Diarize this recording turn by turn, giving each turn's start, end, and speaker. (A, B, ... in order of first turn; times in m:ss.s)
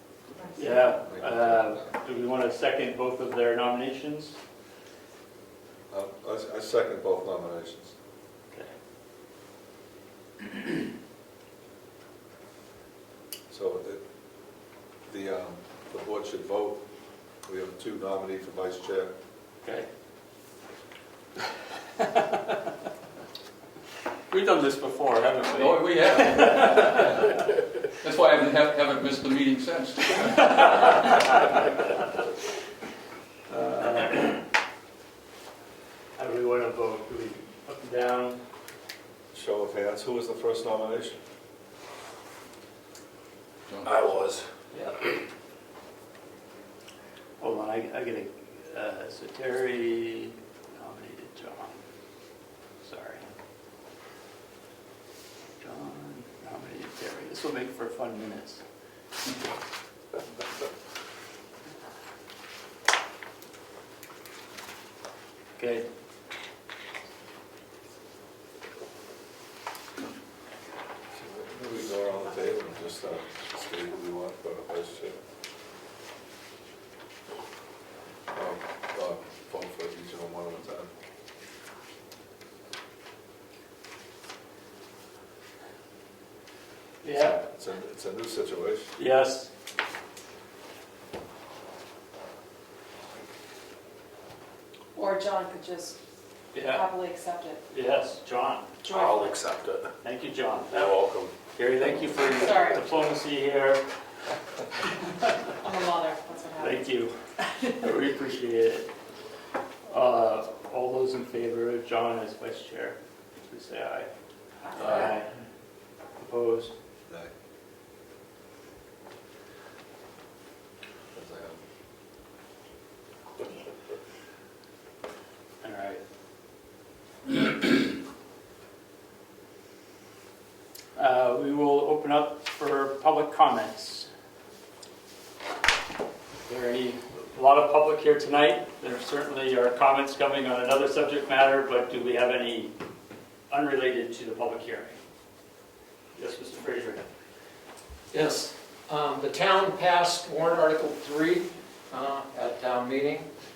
0:00.6-0:04.4 A
0:00.9-0:01.9 B
0:05.9-0:07.9 B
0:13.5-0:14.0 B
0:15.1-0:16.8 B
0:17.4-0:19.1 B
0:19.6-0:19.9 A
0:22.0-0:22.7 A
0:24.3-0:27.3 A
0:25.5-0:27.4 C
0:28.0-0:30.9 C
0:30.2-0:31.8 A
0:33.5-0:34.4 A
0:36.2-0:38.4 A
0:39.3-0:41.2 B
0:43.7-0:44.2 C
0:43.8-0:44.4 D
0:47.4-0:51.8 A
0:52.8-0:53.2 A
0:55.6-0:58.6 A
1:05.6-1:05.9 A
1:11.1-1:15.2 B
1:18.3-1:20.9 B
1:27.0-1:27.4 A
1:27.1-1:28.9 B
1:29.0-1:29.5 A
1:34.9-1:36.0 E
1:36.5-1:36.8 A
1:36.6-1:37.6 E
1:37.7-1:38.7 A
1:38.8-1:39.3 E
1:38.8-1:39.9 D
1:40.0-1:43.8 A
1:40.7-1:41.3 D
1:42.4-1:42.8 E
1:45.6-1:46.8 E
1:46.6-1:48.9 A
1:49.9-1:54.1 A
1:54.6-1:55.1 E
1:54.7-1:55.3 A
1:56.2-1:56.7 A
1:57.1-1:57.3 B
2:01.1-2:01.6 B
2:05.6-2:06.0 A
2:11.0-2:14.1 A
2:16.4-2:22.7 A
2:23.5-2:25.0 A
2:26.2-2:27.1 A
2:28.1-2:33.3 F